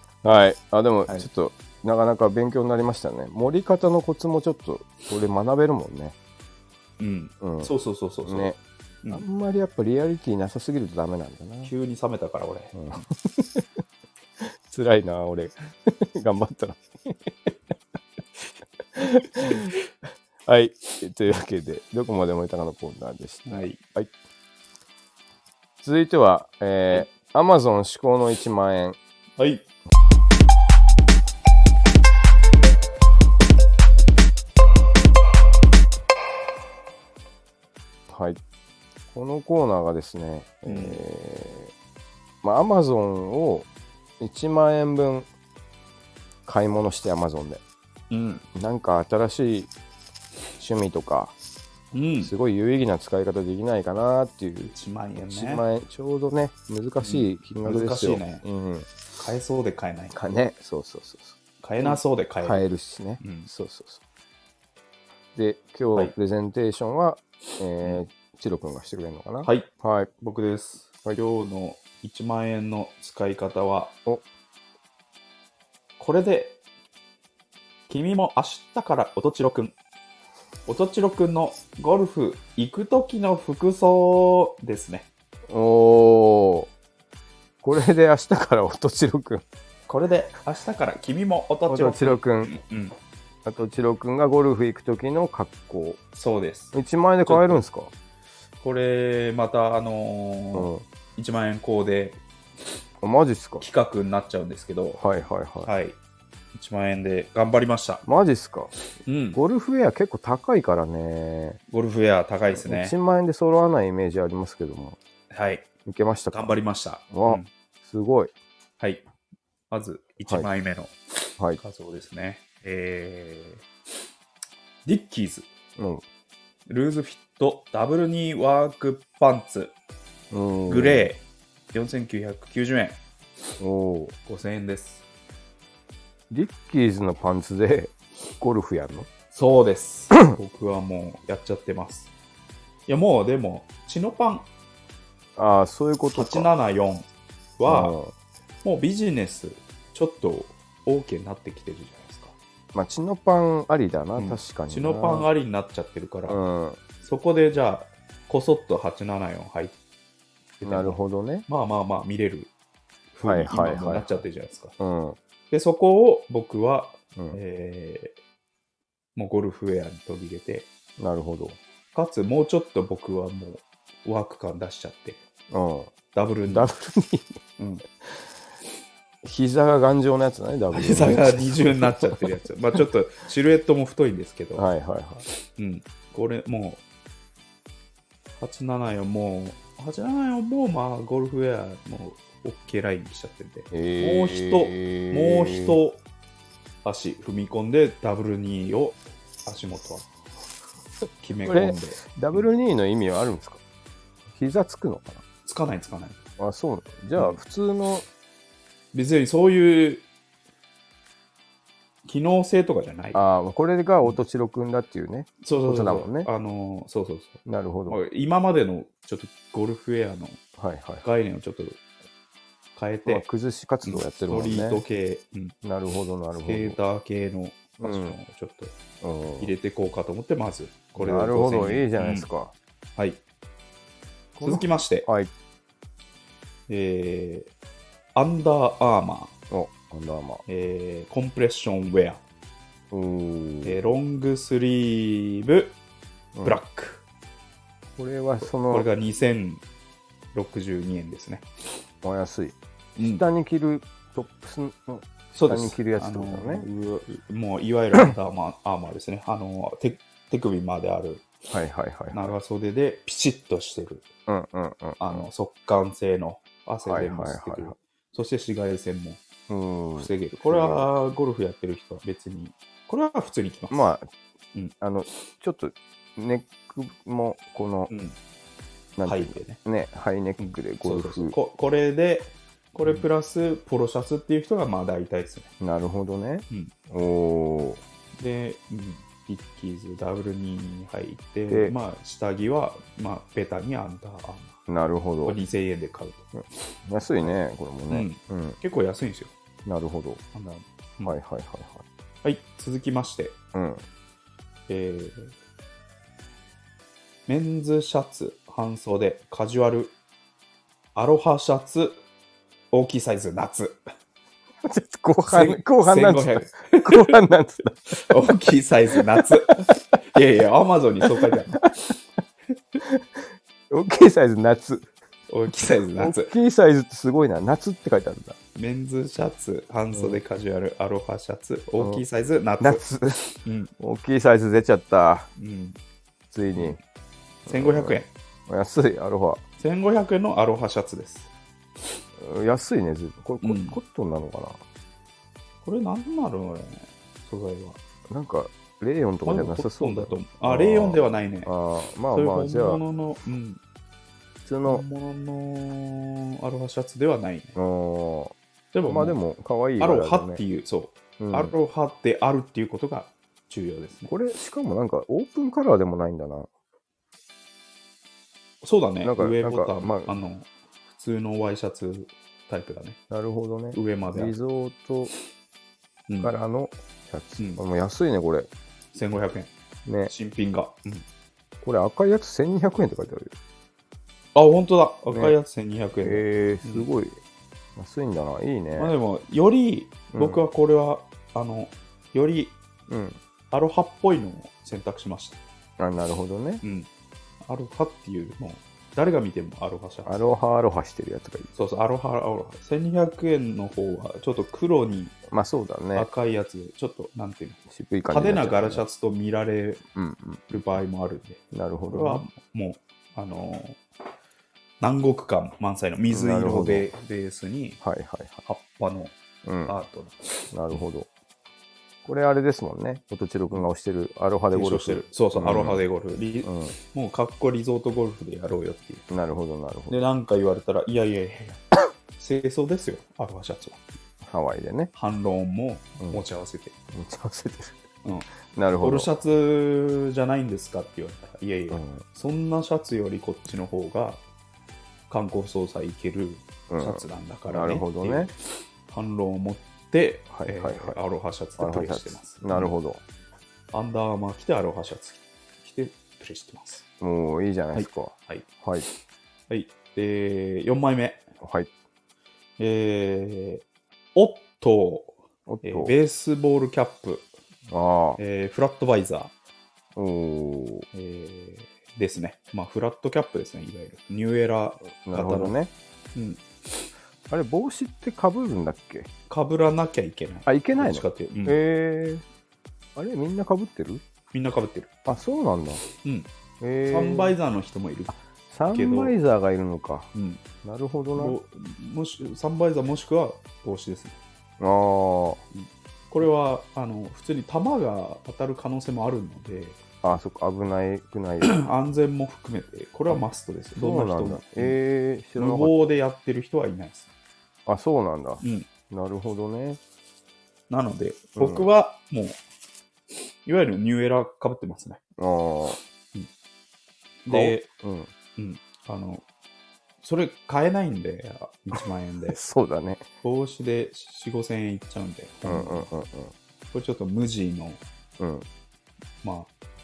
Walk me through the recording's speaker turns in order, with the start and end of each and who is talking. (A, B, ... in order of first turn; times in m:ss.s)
0:00.2-0:06.2 A
0:07.0-0:08.5 B
0:07.4-0:07.7 A
0:08.3-0:08.6 A
0:09.1-0:11.7 A
0:11.6-0:13.1 B
0:12.7-0:13.7 A
0:14.4-0:17.5 A
0:18.4-0:19.8 A
0:19.4-0:19.7 B
0:20.5-0:24.1 A
0:23.5-0:23.8 B
0:25.8-0:29.0 A
0:29.4-0:29.6 B
0:38.1-0:38.4 A
0:39.1-0:41.7 A
0:40.7-0:41.0 B
0:42.4-0:43.7 A
0:44.2-0:45.3 A
0:46.5-0:47.6 A
0:48.1-0:48.4 B
0:48.6-0:49.7 A
0:50.6-0:51.4 A
0:51.9-0:52.3 B
0:52.2-0:58.9 A
0:54.7-0:55.6 B
0:57.0-0:58.4 B
0:59.1-1:00.2 B
1:00.1-1:04.0 A
1:01.6-1:02.6 B
1:03.2-1:03.5 B
1:05.4-1:10.1 A
1:09.4-1:09.7 B
1:10.2-1:14.0 B
1:16.0-1:16.6 B
1:17.9-1:19.8 B
1:20.7-1:25.1 B
1:25.5-1:26.7 A
1:27.6-1:29.4 A
1:29.9-1:33.0 B
1:31.7-1:32.5 A
1:33.4-1:36.0 A
1:36.2-1:36.8 B
1:36.7-1:37.9 A
1:37.3-1:37.6 B
1:38.6-1:42.2 B
1:40.5-1:40.8 A
1:43.0-1:43.6 A
1:43.6-1:45.0 B
1:45.0-1:45.7 A
1:45.6-1:46.0 B
1:46.5-1:48.0 B
1:48.0-1:48.7 A
1:49.0-1:49.4 B
1:49.3-1:51.6 A
1:51.7-1:53.0 B
1:52.5-1:55.0 A
1:55.3-1:55.7 B
1:55.9-1:56.5 A
1:56.3-1:57.5 B
1:57.1-1:58.3 A
1:59.7-2:01.0 B
2:01.6-2:03.7 B
2:04.9-2:05.5 B
2:05.8-2:06.0 A
2:06.7-2:09.7 B
2:10.3-2:11.1 A
2:10.7-2:13.0 B
2:13.6-2:14.2 A
2:14.3-2:15.0 B
2:16.3-2:19.1 A
2:19.3-2:22.1 B
2:22.9-2:24.5 B
2:25.4-2:26.5 A
2:26.1-2:27.1 B
2:27.6-2:28.0 B
2:27.7-2:28.1 A
2:28.6-2:32.4 B
2:32.7-2:35.3 A
2:34.2-2:36.4 B
2:36.3-2:36.8 A
2:37.0-2:39.8 B
2:40.6-2:42.5 B
2:40.6-2:41.5 A
2:43.1-2:44.8 B
2:43.2-2:44.2 A
2:44.8-2:45.2 A
2:45.5-2:48.2 B
2:49.2-2:50.7 B
2:51.0-2:51.6 A
2:51.9-2:55.2 B
2:55.5-2:55.9 A
2:56.1-2:56.7 B
2:56.5-2:57.4 A
2:57.6-2:57.8 B
2:59.2-3:02.3 A
3:00.7-3:04.7 B
3:04.6-3:05.3 A
3:05.5-3:06.8 B
3:08.4-3:16.0 B
3:13.7-3:15.8 A
3:16.8-3:20.1 B
3:21.2-3:22.5 B
3:21.4-3:23.6 A
3:24.3-3:25.2 A
3:25.4-3:26.3 B
3:26.4-3:28.1 A
3:27.2-3:27.4 B
3:28.9-3:30.1 B
3:32.0-3:33.2 B
3:33.1-3:36.3 A
3:35.4-3:40.4 B
3:37.4-3:38.0 A
3:40.6-3:41.0 A
3:41.0-3:41.8 B
3:42.8-3:43.2 B
3:43.1-3:44.8 A
3:43.8-3:45.5 B
3:45.6-3:46.8 A
3:46.4-3:48.8 B
3:47.8-3:48.2 A
3:49.0-3:49.5 A
3:49.4-3:52.3 B
3:51.0-3:52.5 A
3:53.0-3:53.2 B
3:54.4-3:55.3 A
3:54.4-3:55.1 B
3:56.7-3:57.5 B
3:58.2-3:59.3 B
3:59.5-4:00.4 A
4:00.5-4:02.2 B
4:02.9-4:03.8 A
4:03.6-4:05.8 B
4:06.4-4:06.6 A
4:06.4-4:07.0 B
4:08.0-4:08.9 A
4:08.4-4:09.6 B
4:10.3-4:11.5 B
4:12.0-4:16.7 A
4:13.0-4:13.2 B
4:15.3-4:21.3 B
4:21.5-4:22.4 A
4:22.1-4:24.1 B
4:24.3-4:25.3 A
4:25.0-4:29.2 B
4:26.9-4:27.8 A
4:29.5-4:30.9 A
4:30.0-4:33.9 B
4:33.7-4:34.1 A
4:34.8-4:37.9 A
4:37.9-4:38.2 B
4:39.0-4:41.4 A
4:39.0-4:39.6 B
4:40.4-4:45.5 B
4:45.6-4:47.8 A
4:48.2-4:54.6 B
4:51.5-4:51.8 A
4:54.7-4:55.4 A
4:55.2-4:56.3 B
4:56.3-4:58.6 A
4:57.2-4:59.3 B
4:59.6-5:00.2 A
5:00.3-5:01.2 B
5:01.0-5:01.8 A
5:02.2-5:03.4 B
5:03.5-5:03.8 A
5:04.7-5:05.3 B
5:07.3-5:10.0 B
5:11.0-5:12.0 B
5:12.7-5:13.8 B
5:14.6-5:18.2 A
5:15.3-5:17.2 B
5:17.9-5:21.6 B
5:18.9-5:19.7 A
5:22.8-5:24.9 A
5:25.3-5:26.4 B
5:26.0-5:28.4 A
5:28.6-5:33.7 B
5:29.9-5:30.2 A
5:31.8-5:32.0 A
5:32.6-5:35.3 A
5:35.4-5:35.8 B
5:36.3-5:36.8 A
5:36.6-5:36.8 B
5:37.5-5:38.1 B
5:37.5-5:39.4 A
5:39.6-5:41.3 B
5:42.2-5:44.6 A
5:43.4-5:43.8 B
5:45.6-5:47.8 B
5:48.1-5:52.8 A
5:49.2-5:51.5 B
5:52.1-5:53.6 B
5:54.5-5:54.8 A
5:54.6-5:57.6 B
5:57.6-5:58.4 A
5:58.7-5:59.2 B
5:58.9-6:00.4 A
5:59.8-6:04.1 B
6:01.2-6:01.5 A
6:04.1-6:06.5 A
6:08.6-6:13.0 B
6:09.0-6:10.2 A
6:13.1-6:15.1 A
6:13.7-6:14.4 B
6:16.2-6:18.5 A
6:18.9-6:19.5 B
6:19.9-6:20.1 A
6:20.1-6:21.0 B
6:21.6-6:23.4 A
6:24.4-6:26.9 B
6:25.1-6:25.4 A
6:26.0-6:27.2 A
6:27.8-6:28.9 A
6:28.8-6:32.6 B
6:30.1-6:30.4 A
6:32.9-6:33.2 A
6:33.5-6:35.4 B
6:35.8-6:36.6 A
6:36.6-6:36.9 B
6:37.4-6:40.2 B
6:40.0-6:41.5 A
6:41.5-6:45.2 B
6:45.3-6:46.1 A
6:46.0-6:49.8 B
6:47.7-6:48.8 A
6:50.0-6:50.6 A
6:50.5-6:53.8 B
6:51.5-6:52.3 A
6:54.8-6:57.8 B
6:56.1-6:56.9 A
6:57.8-6:58.4 A
6:58.4-7:00.8 B
6:59.4-6:59.7 A
7:00.5-7:01.1 A
7:02.0-7:05.8 A
7:04.5-7:09.0 B
7:06.4-7:06.7 A
7:09.1-7:10.0 A
7:09.9-7:11.6 B
7:12.2-7:13.8 B
7:14.2-7:14.9 A
7:14.9-7:16.7 B
7:16.9-7:17.8 A
7:18.5-7:19.1 A
7:18.8-7:24.2 B
7:21.7-7:22.0 A
7:25.1-7:28.4 B
7:26.7-7:28.3 A
7:28.9-7:32.7 B
7:30.3-7:31.0 A
7:31.6-7:33.0 A
7:33.7-7:36.9 B
7:37.0-7:38.9 A
7:37.7-7:38.5 B
7:39.5-7:41.3 B
7:41.4-7:41.7 A
7:42.6-7:43.6 B
7:44.2-7:47.3 B
7:45.5-7:46.0 A
7:47.7-7:48.2 A
7:48.2-7:49.3 B
7:50.0-7:50.9 A
7:50.9-7:55.5 B
7:55.0-7:55.7 A
7:56.2-7:56.4 B
7:57.3-7:59.1 A
7:59.3-8:01.6 B
8:00.5-8:02.2 A
8:03.0-8:04.0 A
8:04.3-8:04.9 B
8:05.1-8:05.8 A
8:05.9-8:06.3 B
8:06.6-8:07.4 A
8:06.9-8:08.2 B
8:08.5-8:10.1 A
8:08.7-8:09.2 B
8:10.1-8:10.4 B
8:10.6-8:11.4 A
8:11.2-8:14.2 B
8:14.6-8:15.4 A
8:15.5-8:19.8 B
8:20.0-8:21.6 A
8:21.4-8:24.8 B
8:23.8-8:25.9 A
8:25.4-8:27.1 B
8:27.7-8:29.8 A
8:28.4-8:28.7 B
8:30.7-8:32.4 B
8:31.4-8:31.7 A
8:33.4-8:35.0 B
8:35.2-8:35.8 A
8:37.2-8:37.7 B
8:37.3-8:38.1 A
8:38.4-8:39.2 B
8:40.0-8:42.4 B
8:42.3-8:43.0 A
8:43.2-8:45.9 B
8:45.4-8:46.3 A
8:46.7-8:47.8 B
8:48.2-8:48.5 A
8:49.2-8:49.5 B